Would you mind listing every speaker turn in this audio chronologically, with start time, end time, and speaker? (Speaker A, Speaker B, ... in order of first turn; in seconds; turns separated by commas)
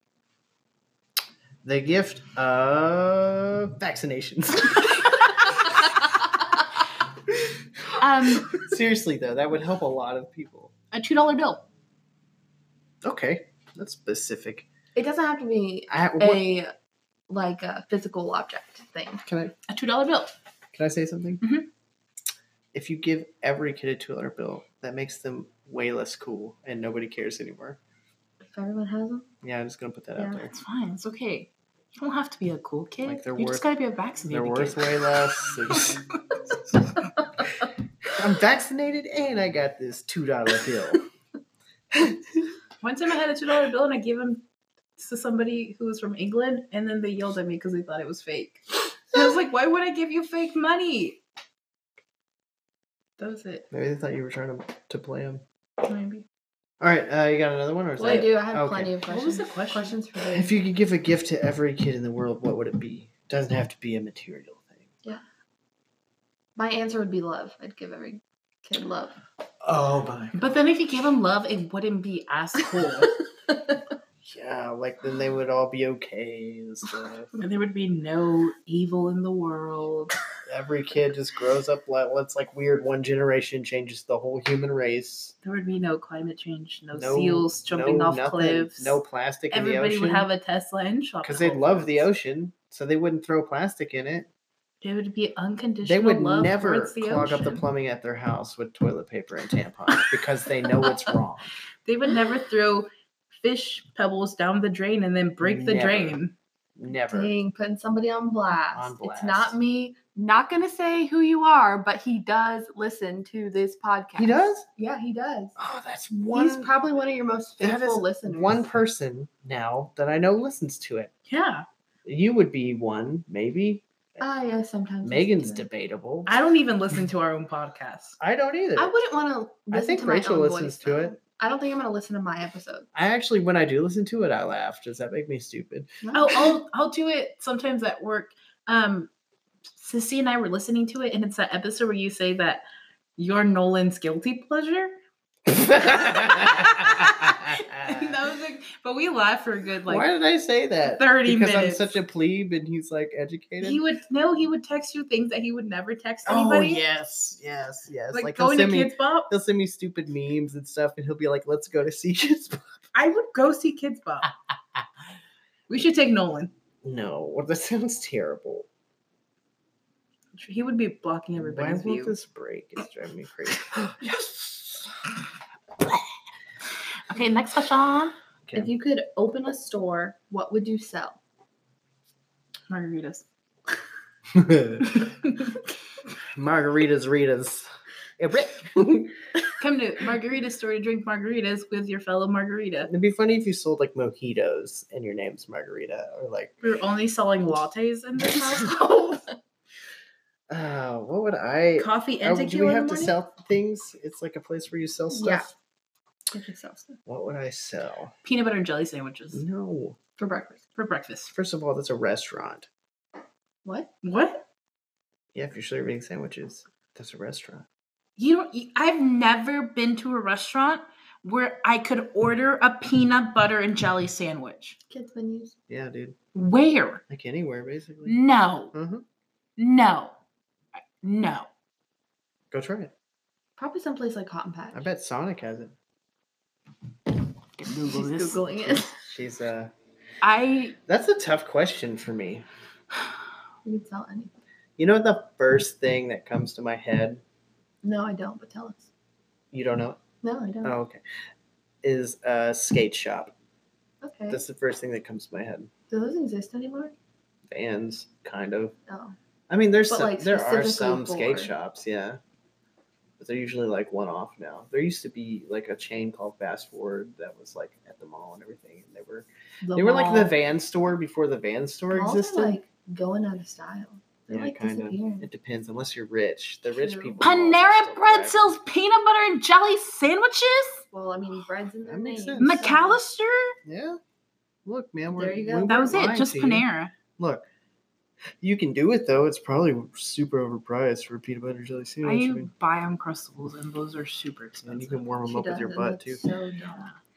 Speaker A: 1.6-6.0, Speaker A: 7.3-10.7, Speaker B: 8.0-8.7, Speaker B: 10.9-11.6, Speaker A: 13.0-14.7, Speaker C: 14.9-16.7, Speaker A: 15.9-16.5, Speaker C: 17.3-19.2, Speaker A: 19.2-19.5, Speaker B: 19.7-20.3, Speaker A: 20.7-21.4, Speaker B: 21.4-21.7, Speaker A: 22.7-27.8, Speaker C: 28.4-29.3, Speaker A: 29.4-30.5, Speaker B: 30.4-35.0, Speaker A: 33.0-33.7, Speaker A: 34.3-36.0, Speaker B: 35.7-36.6, Speaker A: 38.0-41.0, Speaker B: 42.8-44.4, Speaker B: 45.0-51.2, Speaker B: 53.2-53.6, Speaker A: 53.7-55.4, Speaker B: 55.8-56.2, Speaker A: 56.8-58.9, Speaker C: 58.0-60.5, Speaker B: 59.1-59.9, Speaker A: 60.3-64.9, Speaker C: 66.5-69.2, Speaker A: 69.6-70.4, Speaker B: 70.3-73.2, Speaker A: 74.2-77.3, Speaker B: 77.4-80.1, Speaker A: 80.5-85.3, Speaker B: 85.4-89.0, Speaker A: 86.9-90.3, Speaker B: 89.5-92.1, Speaker A: 91.2-94.3, Speaker B: 94.8-97.6, Speaker A: 95.8-101.5, Speaker B: 101.8-106.3, Speaker A: 105.4-106.2, Speaker A: 106.8-107.3, Speaker C: 107.1-115.5, Speaker A: 108.7-109.5, Speaker A: 114.2-114.6, Speaker A: 115.6-116.7, Speaker C: 116.3-118.7, Speaker A: 117.6-121.1, Speaker B: 121.3-121.6, Speaker A: 122.0-123.8, Speaker C: 124.2-125.7, Speaker A: 125.0-126.3, Speaker B: 126.2-128.2, Speaker A: 128.2-128.9, Speaker C: 128.8-132.9, Speaker A: 129.7-131.2, Speaker A: 132.9-136.0, Speaker C: 136.0-136.4, Speaker B: 136.1-139.1, Speaker B: 139.8-142.6, Speaker B: 143.2-145.0, Speaker A: 145.5-148.2, Speaker B: 146.0-150.1, Speaker A: 149.9-153.8, Speaker B: 150.8-151.9, Speaker B: 153.6-156.8, Speaker A: 156.2-162.8, Speaker B: 158.1-159.3, Speaker B: 162.9-164.3, Speaker B: 165.7-166.5, Speaker A: 166.8-168.7, Speaker B: 170.3-172.1, Speaker A: 171.3-174.8, Speaker B: 177.1-178.1, Speaker C: 178.5-181.2, Speaker B: 182.7-183.2, Speaker A: 184.3-185.0, Speaker B: 184.8-185.6, Speaker A: 186.3-189.2, Speaker B: 189.6-192.9, Speaker A: 192.8-196.5, Speaker B: 196.6-199.2, Speaker A: 200.5-205.5, Speaker B: 201.8-203.1, Speaker C: 205.1-205.5, Speaker C: 206.3-207.0, Speaker A: 207.1-208.1, Speaker B: 208.2-209.4, Speaker A: 209.3-210.0, Speaker C: 210.2-210.6, Speaker B: 210.8-211.3, Speaker A: 211.3-212.7, Speaker B: 214.0-214.4, Speaker A: 215.3-217.7, Speaker B: 218.2-224.8, Speaker C: 224.9-225.5, Speaker A: 225.7-226.2, Speaker B: 226.3-227.0, Speaker A: 227.1-228.2, Speaker B: 228.0-228.7, Speaker A: 228.7-229.0, Speaker B: 229.6-230.1, Speaker B: 231.0-231.5, Speaker A: 232.5-232.9, Speaker C: 233.6-234.9, Speaker A: 234.7-235.7, Speaker B: 237.6-238.4, Speaker C: 237.9-238.9, Speaker A: 238.6-239.7, Speaker B: 240.2-240.8, Speaker A: 240.9-242.4, Speaker C: 243.6-244.3, Speaker A: 244.8-247.2, Speaker C: 247.8-248.9, Speaker A: 249.5-250.0, Speaker C: 250.2-250.7, Speaker A: 250.6-251.0, Speaker A: 251.8-253.3, Speaker C: 254.0-254.4, Speaker A: 254.3-255.7, Speaker C: 255.9-256.9, Speaker A: 257.5-258.7, Speaker C: 258.9-259.1, Speaker A: 259.5-262.2, Speaker C: 259.9-261.5, Speaker A: 263.2-272.6, Speaker C: 269.6-270.3, Speaker C: 271.9-275.3, Speaker A: 274.3-278.5, Speaker C: 276.7-277.2, Speaker B: 277.2-280.8, Speaker C: 280.9-283.0, Speaker A: 281.9-282.6, Speaker B: 282.4-283.6, Speaker A: 283.6-284.0, Speaker A: 284.6-287.4, Speaker C: 285.1-285.9, Speaker B: 285.7-286.9, Speaker A: 288.4-292.5, Speaker B: 292.0-295.1, Speaker A: 294.6-296.2, Speaker C: 295.2-296.9